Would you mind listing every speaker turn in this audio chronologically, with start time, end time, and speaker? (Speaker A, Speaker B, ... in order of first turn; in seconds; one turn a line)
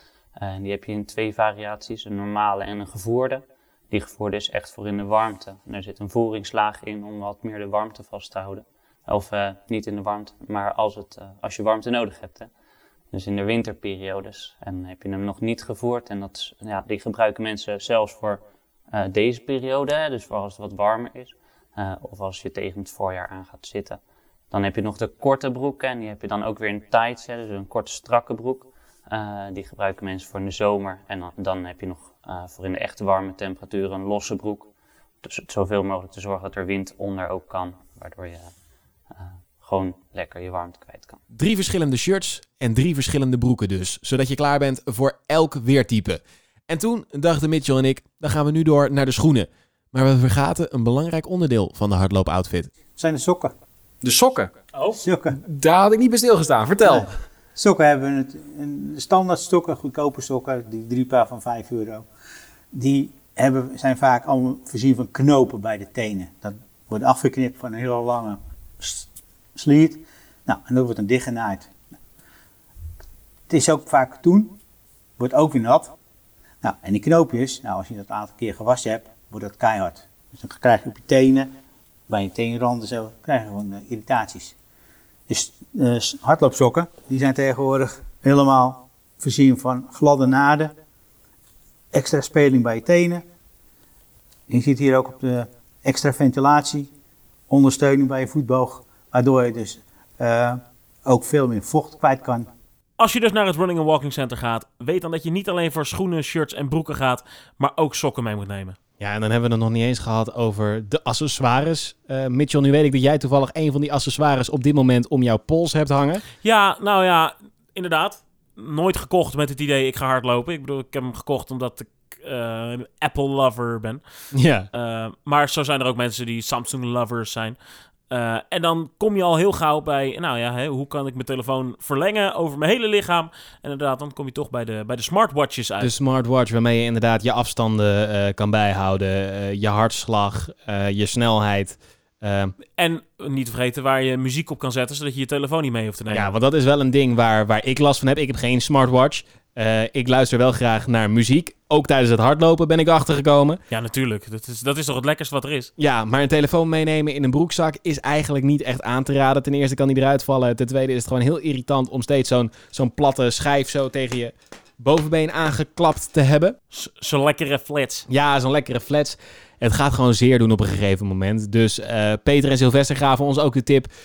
Speaker A: 0.4-12.5
Speaker A: 13.1-24.0
Speaker A: 24.5-34.7
Speaker A: 35.2-38.5
Speaker A: 39.1-41.2
Speaker B: 41.3-52.7
Speaker C: 53.0-53.5
Speaker B: 54.0-54.5
Speaker D: 54.7-55.0
Speaker C: 55.0-55.4
Speaker B: 55.4-57.1
Speaker C: 56.8-62.1
Speaker C: 62.7-71.8
Speaker C: 73.5-74.6
Speaker C: 75.2-76.0
Speaker C: 76.6-81.5
Speaker C: 82.1-84.5
Speaker C: 85.3-90.8
Speaker C: 91.9-93.2
Speaker C: 94.5-96.9
Speaker C: 97.5-102.5
Speaker D: 103.0-108.8
Speaker B: 109.0-116.2
Speaker D: 116.4-124.0
Speaker B: 124.3-124.7
Speaker D: 124.7-127.6
Speaker D: 128.1-135.9
Speaker B: 135.8-142.5
Speaker D: 142.8-146.3
Speaker B: 146.1-153.6
Speaker D: 153.7-155.7
Speaker B: 155.8-166.6
Speaker D: 166.7-168.1
Speaker B: 168.1-173.9